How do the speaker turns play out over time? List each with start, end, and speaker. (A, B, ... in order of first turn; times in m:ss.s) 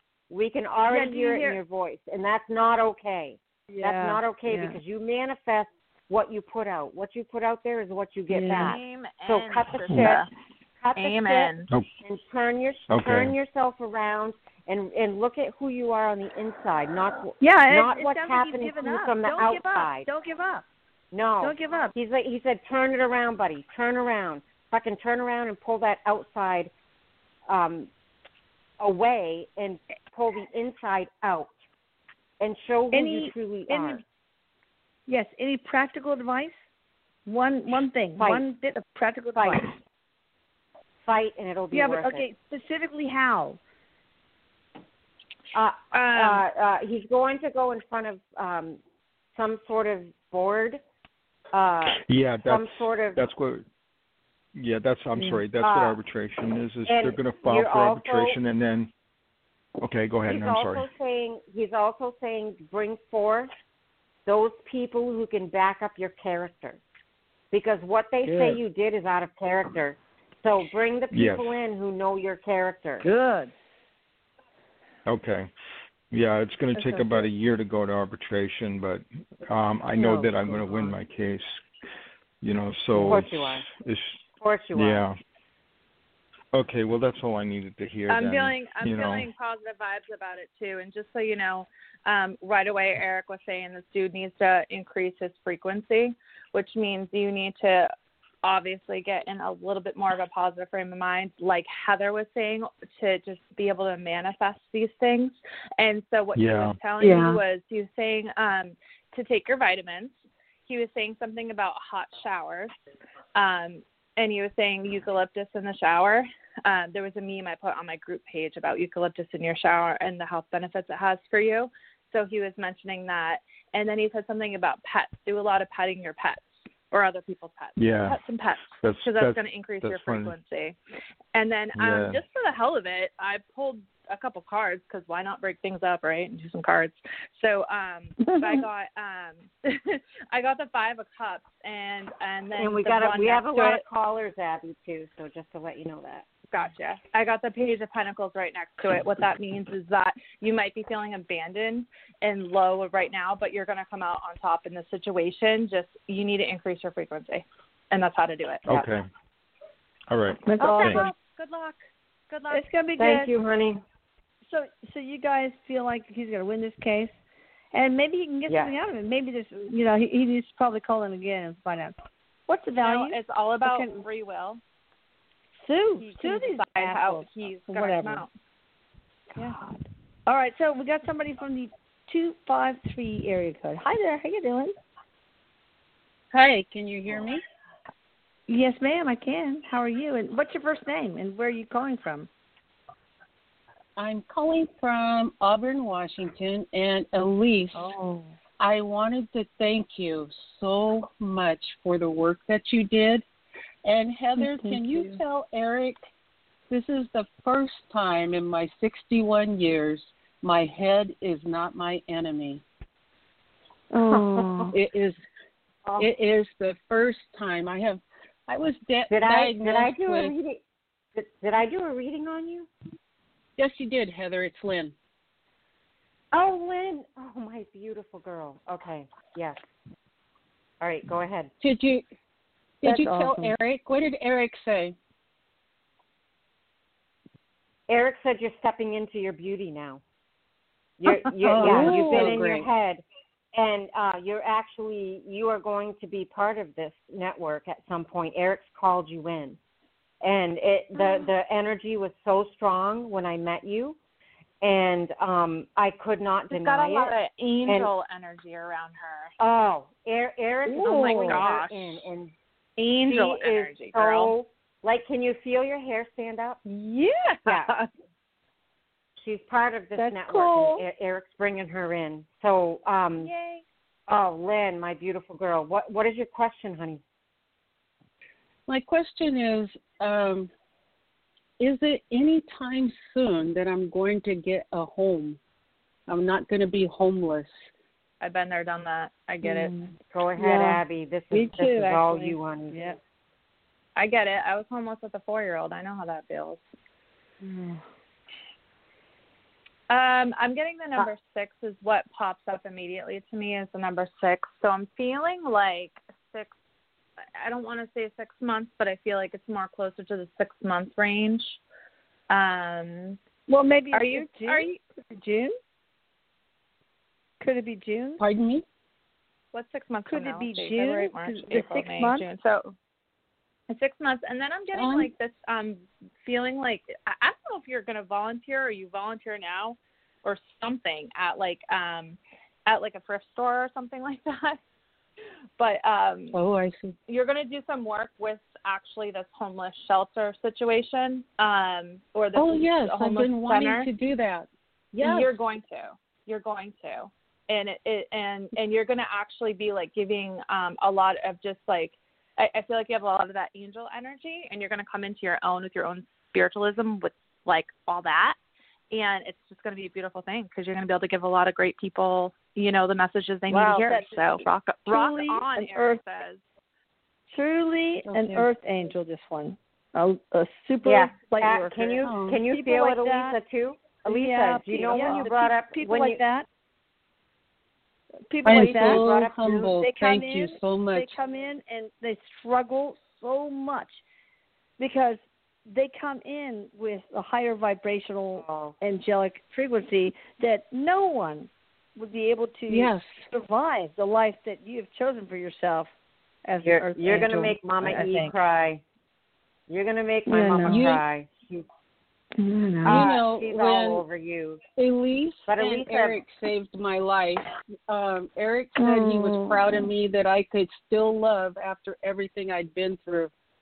0:00.3-0:10.3 A
0:00.9-0:01.6 B
0:03.7-0:04.8 B
0:08.3-0:08.7 B
0:08.5-0:10.3 C
0:10.8-0:20.1 A
0:11.0-0:11.7 C
0:12.9-0:13.3 D
0:17.4-0:20.6 B
0:21.1-0:26.7 A
0:21.4-0:21.9 B
0:27.5-0:27.9 A
0:28.8-0:31.6 A
0:32.4-0:34.0 A
0:32.9-0:34.0 B
0:35.1-0:36.6 B
0:37.3-0:39.7 B
0:38.2-0:38.4 A
0:39.4-0:39.7 A
0:41.0-0:42.3 A
0:41.7-0:43.6 B
0:45.5-0:48.8 A
0:45.9-0:46.4 C
0:49.4-0:50.8 A
0:51.5-0:53.2 A
0:52.0-0:53.6 D
0:54.6-0:58.9 D
0:55.6-0:56.0 A
0:56.9-0:58.4 A
0:59.8-1:00.9 D
1:00.3-1:03.5 A
1:04.3-1:06.8 A
1:07.5-1:13.1 A
1:08.2-1:08.6 B
1:11.1-1:11.5 D
1:13.0-1:13.5 B
1:15.1-1:15.5 D
1:16.1-1:21.6 D
1:16.8-1:17.3 B
1:20.0-1:21.0 B
1:22.4-1:24.2 D
1:23.0-1:23.2 B
1:23.0-1:23.7 A
1:24.4-1:25.1 A
1:24.8-1:25.2 D
1:26.5-1:29.3 D
1:28.1-1:37.9 C
1:38.4-1:50.2 C
1:46.4-1:46.8 D
1:47.0-1:47.4 B
1:50.7-1:52.7 C
1:53.4-2:10.8 C
2:07.8-2:08.2 D
2:08.8-2:10.3 D
2:11.3-2:23.8 C
2:11.8-2:12.2 D
2:18.2-2:18.6 B
2:22.6-2:26.3 A
2:26.5-2:38.8 C
2:38.7-2:39.1 D
2:40.1-2:41.1 D
2:40.5-2:41.1 B
2:40.6-2:42.6 C
2:42.5-2:43.3 B
2:43.0-2:43.8 A
2:44.5-2:47.1 B
2:47.7-2:52.0 B
2:48.5-2:48.7 A
2:52.5-2:54.0 B
2:52.8-2:54.6 C
2:55.6-2:58.2 B
2:56.0-2:58.3 C
2:59.4-3:04.8 B
3:06.3-3:07.4 E
3:08.5-3:12.3 B
3:14.0-3:17.9 E
3:17.8-3:18.3 B
3:18.6-3:23.2 E
3:23.8-3:26.0 E
3:24.4-3:25.2 B
3:26.7-3:32.6 E
3:33.9-3:34.7 B
3:34.0-3:34.7 A
3:34.7-3:35.2 E
3:36.0-3:40.3 E
3:39.1-3:40.6 A
3:41.1-3:42.7 A
3:43.6-3:44.9 E
3:46.3-3:49.6 A
3:50.8-3:51.5 A
3:51.6-3:52.0 E
3:52.8-3:55.0 E
3:52.8-3:53.5 B
3:57.9-4:00.0 A
4:01.0-4:09.6 A
4:01.4-4:02.7 E
4:01.6-4:02.3 B
4:10.2-4:14.0 A
4:14.6-4:17.9 A
4:16.5-4:19.3 C
4:19.4-4:22.3 A
4:20.7-4:21.4 B
4:20.9-4:22.0 C
4:22.8-4:24.3 C
4:23.0-4:26.6 A
4:26.7-4:27.9 C
4:27.5-4:27.7 A
4:29.2-4:33.3 A
4:30.0-4:30.8 B
4:33.2-4:33.6 C
4:34.1-4:37.0 A
4:38.7-4:40.5 E
4:41.6-4:45.4 E
4:46.1-4:47.7 E
4:48.2-4:49.7 C
4:49.4-4:50.8 B
4:50.1-4:52.8 A
4:51.3-4:53.0 B
4:54.0-4:56.6 C
4:57.4-4:57.8 B
4:59.9-5:06.5 C
5:07.4-5:11.6 C
5:12.3-5:13.2 C
5:13.5-5:15.6 B
5:13.9-5:14.8 C
5:17.4-5:18.2 B
5:18.2-5:18.6 E
5:19.5-5:22.8 C
5:20.1-5:22.3 B
5:23.7-5:34.6 C
5:24.7-5:25.1 E
5:35.6-5:36.4 C
5:36.3-5:37.0 E
5:37.1-5:43.9 C
5:42.4-5:45.4 E
5:45.0-5:58.4 C
5:58.9-6:06.4 C
6:03.5-6:06.0 B
6:07.3-6:13.4 B
6:08.1-6:08.5 E
6:10.8-6:16.2 A
6:12.0-6:12.4 E
6:14.0-6:16.5 B
6:18.3-6:24.0 B
6:18.4-6:21.2 E
6:18.5-6:19.8 A
6:24.8-6:35.9 B
6:28.4-6:28.8 A
6:32.7-6:33.3 E
6:36.4-6:38.3 B
6:36.6-6:38.8 A
6:39.7-6:41.7 A
6:40.3-6:40.8 B
6:40.7-6:41.0 E
6:42.4-6:43.0 B
6:42.8-6:44.6 A
6:42.8-6:44.0 E
6:44.8-6:53.3 E
6:45.5-6:46.2 A
6:48.8-6:49.9 B